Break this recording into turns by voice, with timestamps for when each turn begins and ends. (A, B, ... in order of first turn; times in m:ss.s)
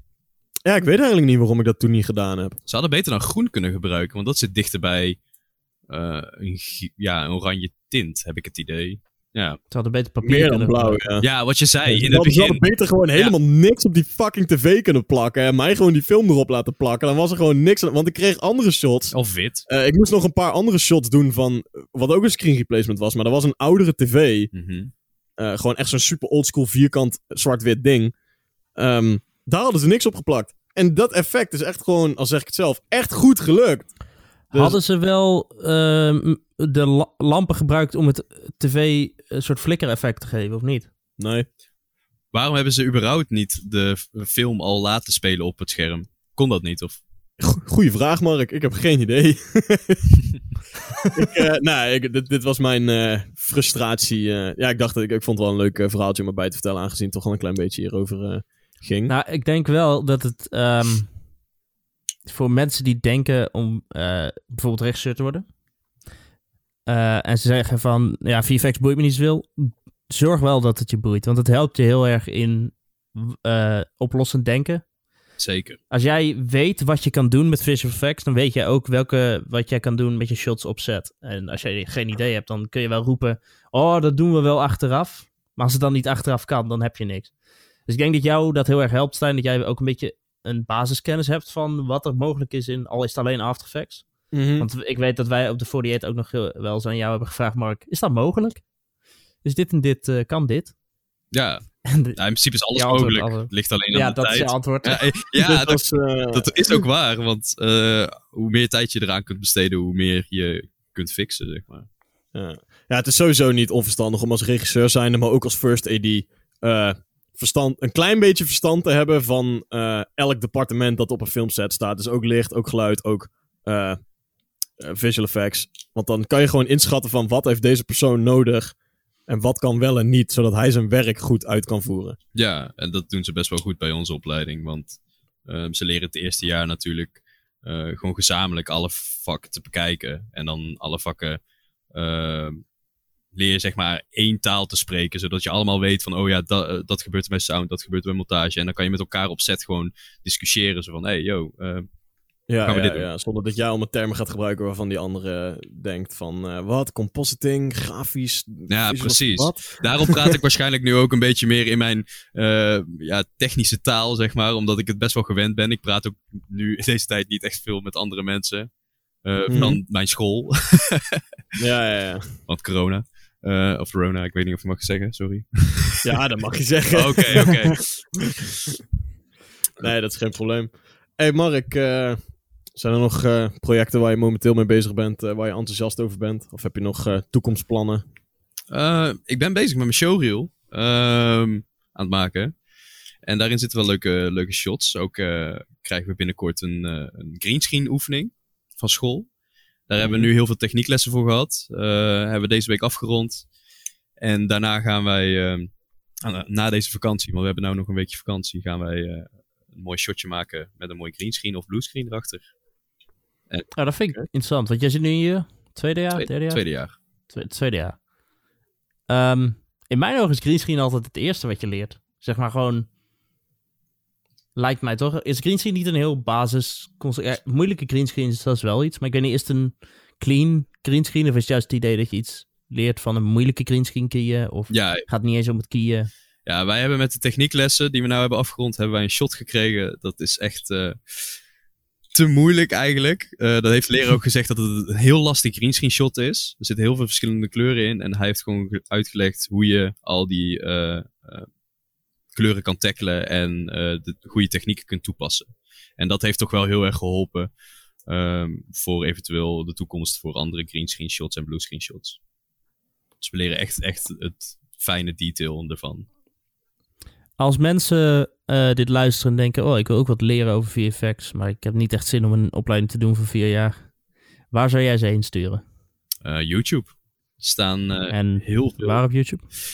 0:00.6-0:02.6 A
0:02.7-0:05.2 B
0:05.9-0:09.6 B
0:09.7-0:11.0 C
0:10.2-0:11.3 A
0:11.2-0:13.3 B
0:11.8-0:19.1 A
0:19.1-0:19.6 B
0:19.7-0:24.5 A
0:24.5-0:24.9 B
0:25.4-0:28.1 A
0:28.7-0:33.9 A
0:34.5-0:34.8 A
0:34.5-0:40.9 C
0:41.2-0:41.4 A
0:42.3-0:47.0 B
0:47.4-0:50.1 A
0:51.1-0:59.1 A
0:59.1-1:01.1 C
1:02.2-1:05.4 C
1:06.9-1:14.8 C
1:15.4-1:15.8 B
1:15.9-1:27.3 C
1:27.9-1:38.6 C
1:34.3-1:34.7 A
1:39.4-1:40.7 C
1:41.3-1:51.9 B
1:41.8-1:42.2 C
1:42.7-1:45.0 C
1:45.4-1:46.8 A
1:52.3-2:04.0 A
2:04.8-2:08.8 A
2:09.3-2:12.2 A
2:12.3-2:21.4 B
2:21.9-2:22.6 B
2:23.3-2:31.9 B
2:32.5-2:40.4 A
2:32.6-2:33.1 B
2:38.7-2:48.7 B
2:49.2-2:51.2 B
2:49.5-2:49.8 A
2:51.6-2:52.4 A
2:52.5-2:56.0 B
2:56.0-2:58.3 A
2:56.9-2:58.3 B
2:59.8-3:02.2 A
3:02.7-3:08.0 A
3:08.7-3:12.5 B
3:13.2-3:19.3 B
3:19.9-3:23.5 B
3:20.0-3:20.3 A
3:24.2-3:25.7 B
3:26.2-3:32.5 B
3:33.5-3:33.8 B
3:33.7-3:36.6 C
3:36.1-3:36.9 B
3:37.3-3:38.0 C
3:39.1-3:42.9 C
3:44.5-3:56.1 C
3:54.7-3:55.1 B
3:56.4-4:01.4 B
4:02.1-4:11.5 B
4:12.3-4:17.5 B
4:18.1-4:22.2 B
4:23.2-4:26.1 B
4:27.4-4:33.9 C
4:34.5-4:35.6 C
4:36.2-4:39.0 B
4:38.1-4:39.4 C